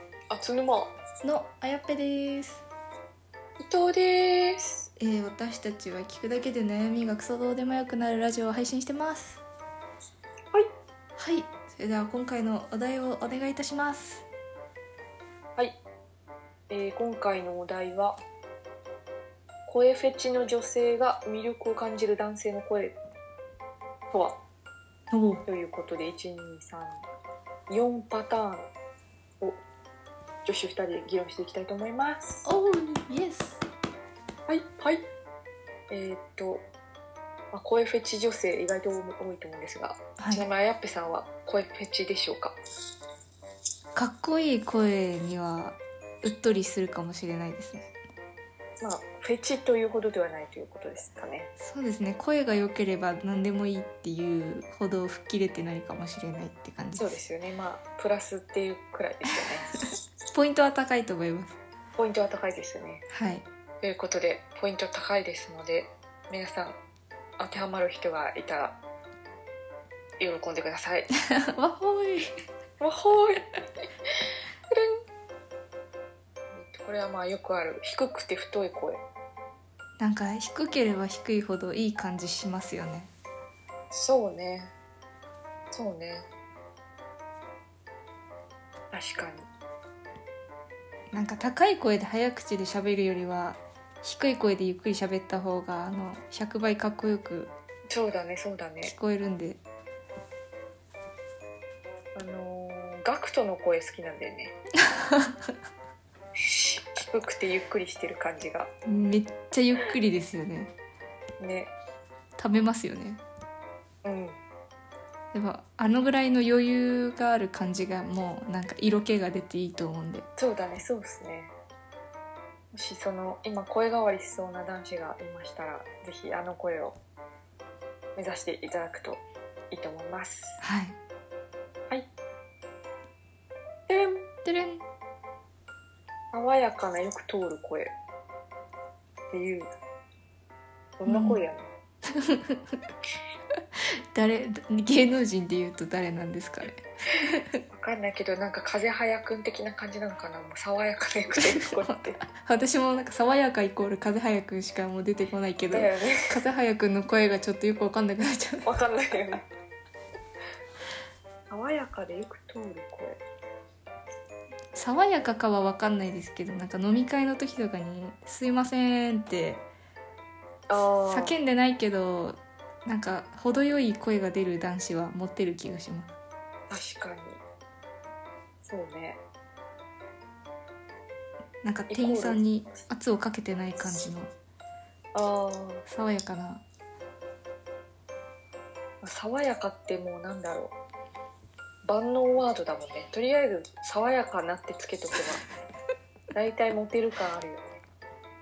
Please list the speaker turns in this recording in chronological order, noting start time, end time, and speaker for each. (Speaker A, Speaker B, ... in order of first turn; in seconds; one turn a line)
Speaker A: 0.3-0.9
Speaker B: 1.2-2.6
Speaker A: 3.6-4.9
Speaker B: 5.0-9.4
Speaker B: 11.2-14.2
Speaker A: 16.7-18.2
Speaker A: 19.7-22.9
Speaker A: 24.1-24.4
Speaker B: 25.1-25.4
Speaker A: 25.5-27.0
Speaker A: 27.7-28.7
Speaker A: 30.4-32.4
Speaker B: 32.4-33.6
Speaker A: 34.5-35.0
Speaker A: 35.9-36.7
Speaker A: 37.5-42.6
Speaker B: 40.2-40.5
Speaker B: 43.9-47.9
Speaker A: 48.8-51.5
Speaker B: 51.6-57.2
Speaker A: 57.0-59.7
Speaker B: 60.3-61.6
Speaker A: 62.0-63.0
Speaker B: 63.1-63.4
Speaker A: 63.8-66.8
Speaker A: 67.4-68.8
Speaker A: 70.2-71.1
Speaker B: 71.3-72.3
Speaker A: 72.8-73.5
Speaker A: 74.7-75.0
Speaker A: 76.5-79.0
Speaker B: 80.0-83.1
Speaker A: 83.9-84.7
Speaker A: 85.7-86.3
Speaker A: 88.9-89.5
Speaker B: 91.1-97.5
Speaker A: 97.9-98.9
Speaker B: 98.8-99.6
Speaker A: 102.1-104.5
Speaker B: 104.9-105.3
Speaker A: 106.4-108.7
Speaker B: 108.8-110.7
Speaker A: 111.4-111.7
Speaker B: 112.4-113.2
Speaker A: 114.0-114.4
Speaker B: 115.3-120.3
Speaker A: 120.4-121.5
Speaker A: 122.7-127.0
Speaker A: 128.2-130.6
Speaker B: 130.6-131.0
Speaker A: 133.9-134.3
Speaker B: 134.4-134.8
Speaker A: 136.3-137.9
Speaker A: 139.3-139.7
Speaker A: 141.0-141.7
Speaker B: 141.1-141.4
Speaker B: 142.1-142.8
Speaker B: 144.1-147.6
Speaker A: 147.7-152.2
Speaker B: 151.4-158.7
Speaker A: 155.7-156.4
Speaker A: 158.7-159.4
Speaker A: 161.5-163.2
Speaker B: 164.7-169.6
Speaker A: 170.7-171.3
Speaker B: 171.1-176.2
Speaker A: 176.7-177.4
Speaker A: 178.6-179.2
Speaker B: 181.6-184.3
Speaker A: 181.9-182.4
Speaker A: 185.1-185.8
Speaker B: 185.9-186.6
Speaker A: 189.0-190.7
Speaker A: 191.8-195.4
Speaker A: 196.3-197.8